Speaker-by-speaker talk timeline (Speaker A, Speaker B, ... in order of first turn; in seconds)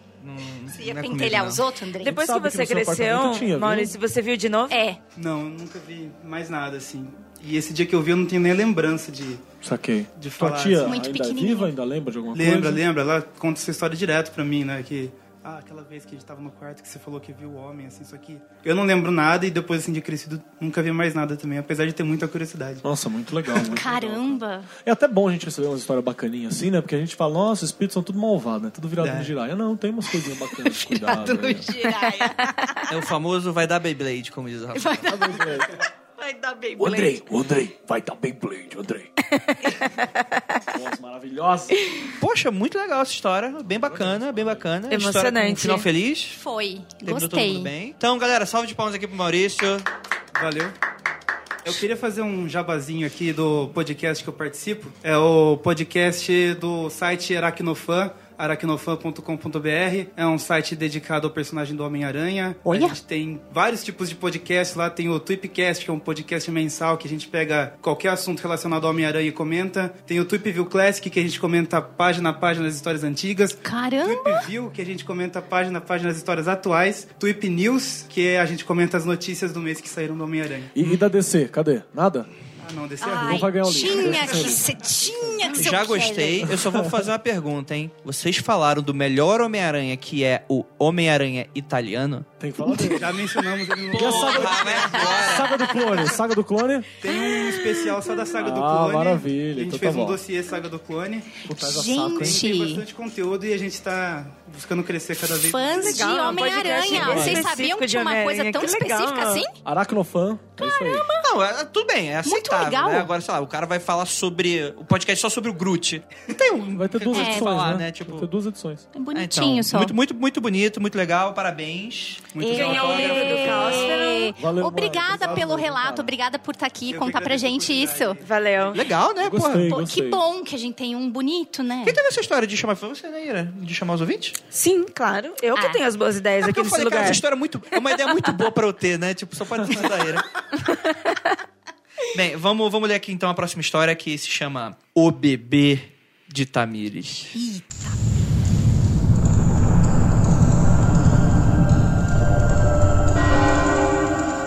Speaker A: 0.2-1.6, 32.9-35.2, 42.2-46.4, 47.0-49.9, 85.5-92.3, 93.9-95.5, 111.2-118.3, 119.1-123.4, 128.7-129.7, 131.8-134.4, 136.4-140.3, 142.1-147.4
Speaker B: 0.7-2.2, 4.7-5.0, 10.8-11.7, 23.6-24.7, 30.7-32.9, 34.7-35.7, 36.2-37.2, 46.3-47.7, 62.7-63.0, 73.6-74.5, 83.0-86.5, 101.6-102.9, 105.2-109.5, 110.6-111.3, 112.2-113.1, 117.1-117.7, 118.9-120.0, 122.5-128.2, 129.7-132.0, 147.3-148.1
Speaker C: 2.0-3.9, 9.6-12.8, 22.8-31.7, 35.0-35.8, 36.8-39.1, 40.7-41.8, 43.7-44.7, 80.8-82.3, 83.2-84.9, 86.4-87.0, 92.4-93.2, 93.9-96.9, 98.4-100.2, 101.5-102.4, 106.9-107.5, 109.6-111.1, 116.7-118.9, 124.4-126.1, 129.2-130.2
Speaker D: 2.0-4.8, 39.4-40.1, 44.9-45.9, 105.8-109.5, 122.5-124.3, 128.2-128.8, 134.5-137.2, 140.6-141.4
Speaker E: 5.2-9.4, 10.1-11.0, 12.3-22.8, 29.0-29.3, 50.3-50.8, 51.6-80.8, 82.6-84.7, 93.0-95.4, 97.0-101.4, 102.1-106.4, 122.3-124.0, 126.9-128.9